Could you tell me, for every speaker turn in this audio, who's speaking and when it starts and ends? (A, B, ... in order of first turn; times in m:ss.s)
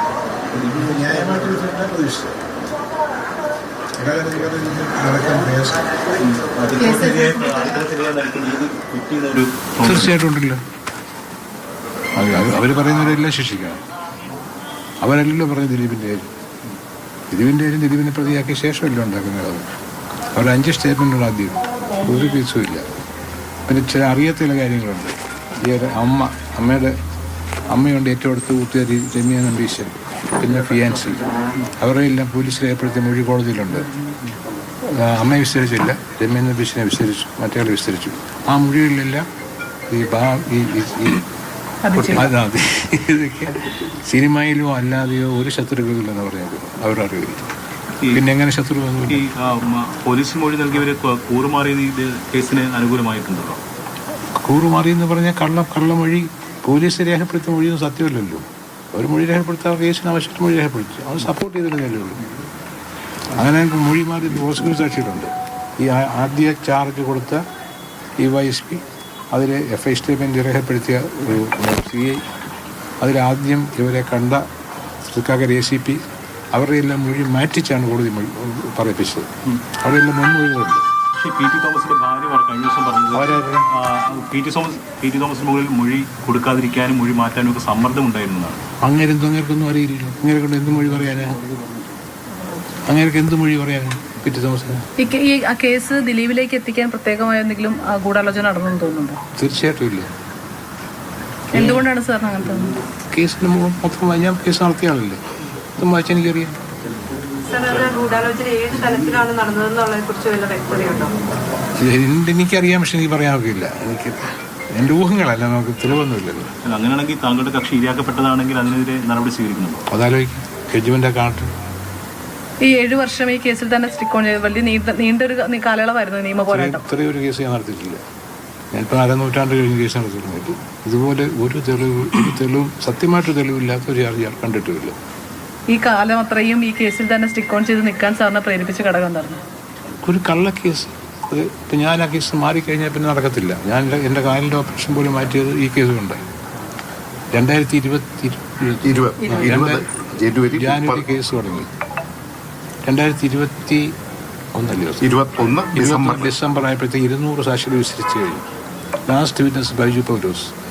0:00.6-0:02.4 A
0:04.0-0:06.1 A
0:06.2-0:10.1 B
0:06.8-0:07.7 C
0:09.8-0:10.6 A
0:12.2-0:13.8 A
0:15.0-0:16.3 A
0:17.3-0:19.6 A
0:20.4-0:22.8 A
0:23.7-0:27.0 A
0:27.7-0:31.2 A
0:31.8-0:33.9 A
0:34.9-0:39.2 A
0:39.9-0:41.3 A
0:41.8-0:42.3 C
0:41.9-0:47.4 A
0:48.1-0:49.2 A
0:49.1-0:53.6 B
0:54.4-1:02.2 A
1:03.4-1:07.4 A
1:08.2-1:12.2 A
1:13.0-1:14.4 A
1:15.0-1:16.0 A
1:16.5-1:20.8 A
1:21.2-1:28.6 B
1:23.1-1:23.7 A
1:28.8-1:31.4 A
1:32.3-1:32.8 C
1:32.9-1:34.9 A
1:35.0-1:39.2 C
1:39.4-1:40.1 A
1:41.5-1:41.9 A
1:41.5-1:42.8 C
1:43.1-1:45.2 A
1:45.8-1:46.6 A
1:47.5-1:51.1 D
1:51.8-1:56.5 A
1:56.6-1:59.8 B
1:59.9-2:01.5 A
2:02.6-2:06.8 C
2:06.5-2:08.0 A
2:08.7-2:15.0 A
2:15.7-2:19.4 C
2:20.0-2:26.2 A
2:27.3-2:29.9 A
2:28.9-2:31.0 E
2:29.2-2:29.5 C
2:30.5-2:31.7 A
2:32.8-2:33.9 A
2:34.5-2:35.1 A
2:35.0-2:36.3 E
2:35.7-2:38.5 A
2:39.1-2:40.5 A